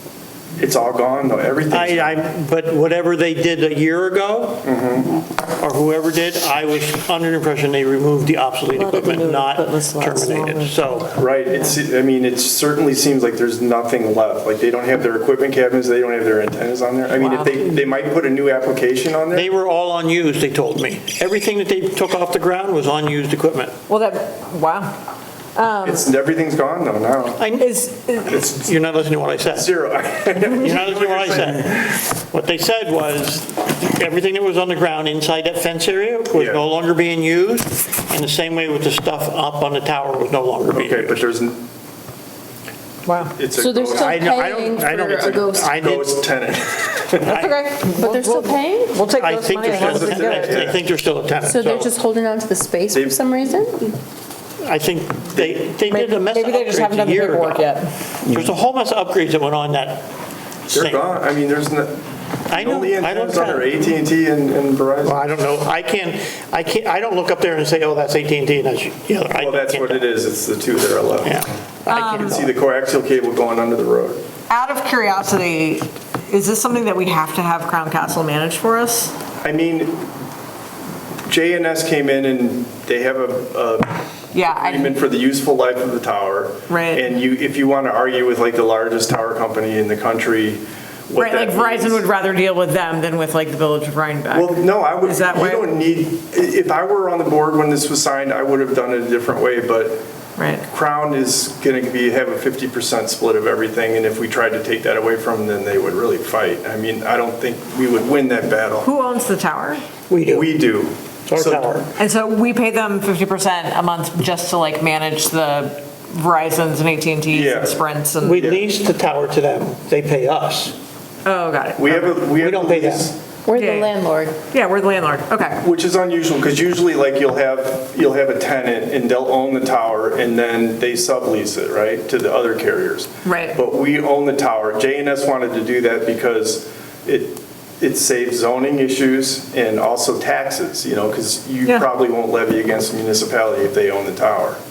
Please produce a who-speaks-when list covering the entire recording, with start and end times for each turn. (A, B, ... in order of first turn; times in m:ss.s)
0:00.6-0:02.2 A
0:01.7-0:04.7 B
0:04.6-0:05.1 A
0:05.6-0:11.2 B
0:08.7-0:10.9 C
0:11.1-0:19.5 A
0:17.2-0:17.6 C
0:19.3-0:23.8 B
0:23.9-0:25.0 C
0:25.6-0:26.0 C
0:25.8-0:27.4 A
0:27.4-0:27.7 B
0:27.6-0:28.4 C
0:28.3-0:28.7 A
0:28.4-0:29.7 B
0:29.5-0:32.0 A
0:30.4-0:41.2 B
0:36.3-0:36.6 A
0:40.7-0:41.7 A
0:43.1-0:43.4 C
0:43.3-0:47.5 A
0:43.5-0:45.7 D
0:43.9-0:46.2 B
0:47.2-0:50.7 C
0:47.3-0:47.6 B
0:47.9-0:49.0 D
0:49.1-0:51.9 B
0:49.7-0:50.8 A
0:51.4-0:54.0 D
0:54.6-0:57.7 B
0:55.3-0:55.6 A
0:55.9-0:57.9 C
0:58.2-1:00.1 B
1:00.7-1:01.0 B
1:00.7-1:05.2 A
1:02.5-1:03.7 B
1:05.0-1:10.1 B
1:09.3-1:11.4 A
1:11.2-1:12.4 B
1:11.9-1:12.4 C
1:12.0-1:14.2 A
1:14.5-1:19.1 C
1:19.4-1:20.1 A
1:21.3-1:32.0 A
1:24.3-1:24.9 C
1:26.7-1:27.0 C
1:31.2-1:35.7 C
1:34.3-1:40.0 A
1:40.4-1:40.6 C
1:40.7-1:48.9 A
1:48.8-1:49.9 C
1:50.1-1:50.5 B
1:50.3-1:51.8 A
1:51.3-1:51.9 B
1:52.0-1:58.4 C
1:57.3-1:57.8 A
1:58.2-2:00.7 B
1:58.4-1:58.7 A
2:01.2-2:02.1 C
2:01.8-2:03.2 A
2:02.4-2:03.1 B
2:03.4-2:04.4 D
2:03.5-2:03.9 C
2:04.4-2:05.6 C
2:05.6-2:24.6 A
2:13.2-2:13.6 C